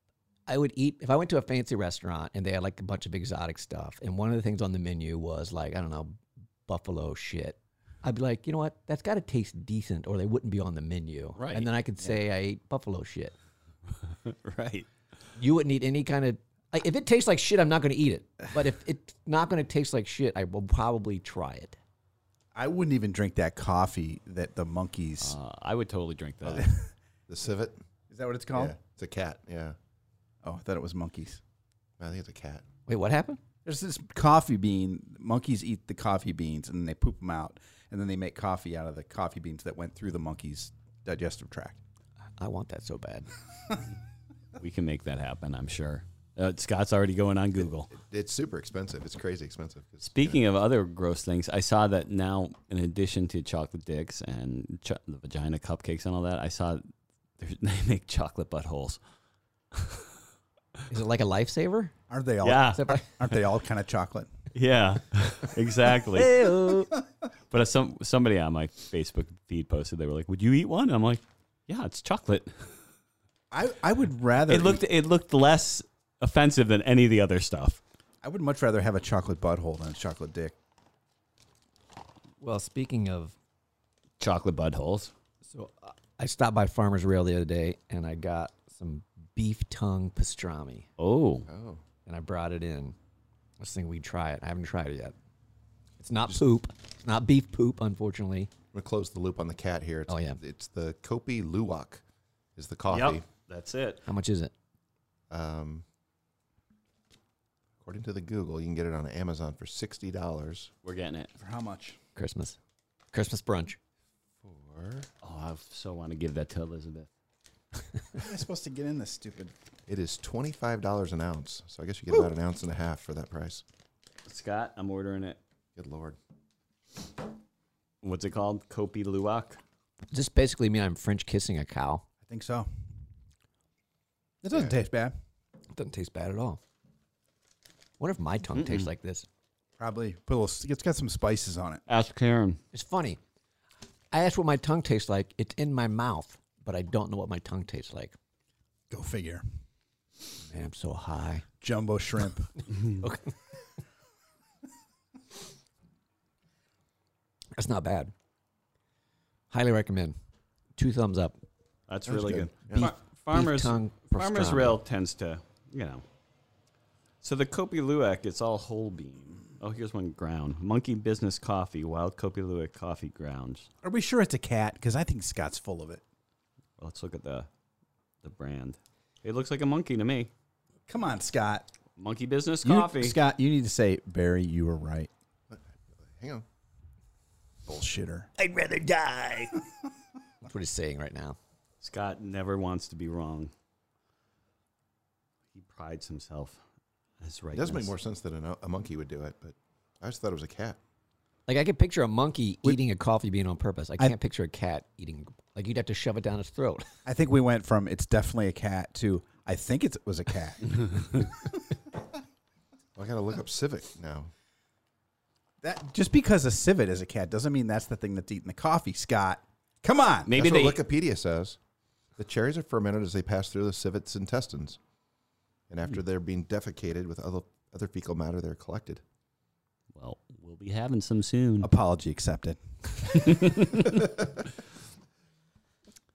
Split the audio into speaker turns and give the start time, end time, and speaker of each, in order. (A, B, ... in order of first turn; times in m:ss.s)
0:00.5-0:13.3 A
0:11.4-0:11.7 B
0:14.2-0:14.9 B
0:15.4-0:21.8 A
0:22.6-0:25.4 C
0:25.2-0:26.7 B
0:27.3-0:27.8 D
0:28.1-0:28.8 C
0:28.5-0:29.8 D
0:30.4-0:31.4 C
0:32.0-0:32.6 D
0:32.9-0:33.4 A
0:33.6-0:41.8 C
0:42.4-0:43.3 A
0:44.6-0:47.9 B
0:47.9-0:50.4 D
0:50.0-0:56.8 B
0:57.4-0:59.0 B
0:59.8-1:00.0 B
1:00.9-1:02.0 A
1:02.1-1:04.3 C
1:02.4-1:02.8 B
1:02.7-1:03.0 A
1:04.5-1:06.5 B
1:06.1-1:06.9 A
1:07.5-1:12.5 B
1:13.5-1:14.8 C
1:14.5-1:17.8 B
1:18.2-1:20.6 C
1:22.4-1:23.4 A
1:24.2-1:25.1 B
1:25.5-1:30.9 A
1:31.0-1:31.5 B
1:31.5-1:31.8 D
1:32.1-1:33.0 A
1:33.6-1:35.2 A
1:36.0-1:38.5 A
1:38.7-1:42.0 D
1:40.1-1:40.4 A
1:42.6-1:43.2 D
1:42.9-1:44.0 B
1:44.1-1:44.5 A
1:45.3-1:45.8 D
1:47.8-1:50.7 D
1:50.8-1:51.3 B
1:51.4-1:52.0 C
1:52.2-1:52.6 A
1:53.1-1:53.8 A
1:54.4-1:55.1 D
1:55.2-1:57.1 B
1:58.2-1:59.5 C
1:59.9-2:03.6 D
2:04.3-2:05.4 B
2:05.8-2:06.2 D
2:08.0-2:09.6 B
2:10.1-2:12.0 A
2:12.3-2:12.7 C
2:14.4-2:15.1 C
2:14.5-2:14.8 D
2:15.7-2:16.6 A
2:18.0-2:19.3 A
2:18.5-2:18.9 B
2:19.8-2:21.8 C
2:21.9-2:22.6 B
2:22.7-2:23.2 A
2:24.1-2:28.2 A
2:28.9-2:29.4 C
2:30.4-2:31.5 A
2:31.6-2:32.7 C
2:32.9-2:33.3 A
2:37.6-2:38.1 A
2:39.5-2:40.2 A
2:40.8-2:41.4 A
2:41.9-2:46.0 B
2:42.1-2:42.9 D
2:42.7-2:44.8 A
2:47.2-2:53.7 B
2:53.8-2:56.0 C
2:56.8-2:57.5 B
2:58.2-3:00.3 B
3:00.9-3:01.7 C
3:02.0-3:03.2 B
3:02.6-3:05.1 C
3:05.5-3:06.4 D
3:07.7-3:08.3 C
3:08.4-3:09.5 B
3:10.4-3:11.4 A
3:11.8-3:13.5 B
3:15.5-3:16.6 B
3:17.2-3:17.9 B
3:17.5-3:20.8 D
3:21.5-3:26.9 A
3:27.1-3:31.6 C
3:33.0-3:34.3 D
3:35.6-3:40.3 C
3:40.3-3:40.8 B
3:40.3-3:41.6 D
3:42.2-3:44.8 D
3:45.7-3:49.0 D
3:50.0-3:51.7 B
3:51.6-3:53.6 C
3:53.1-3:54.1 B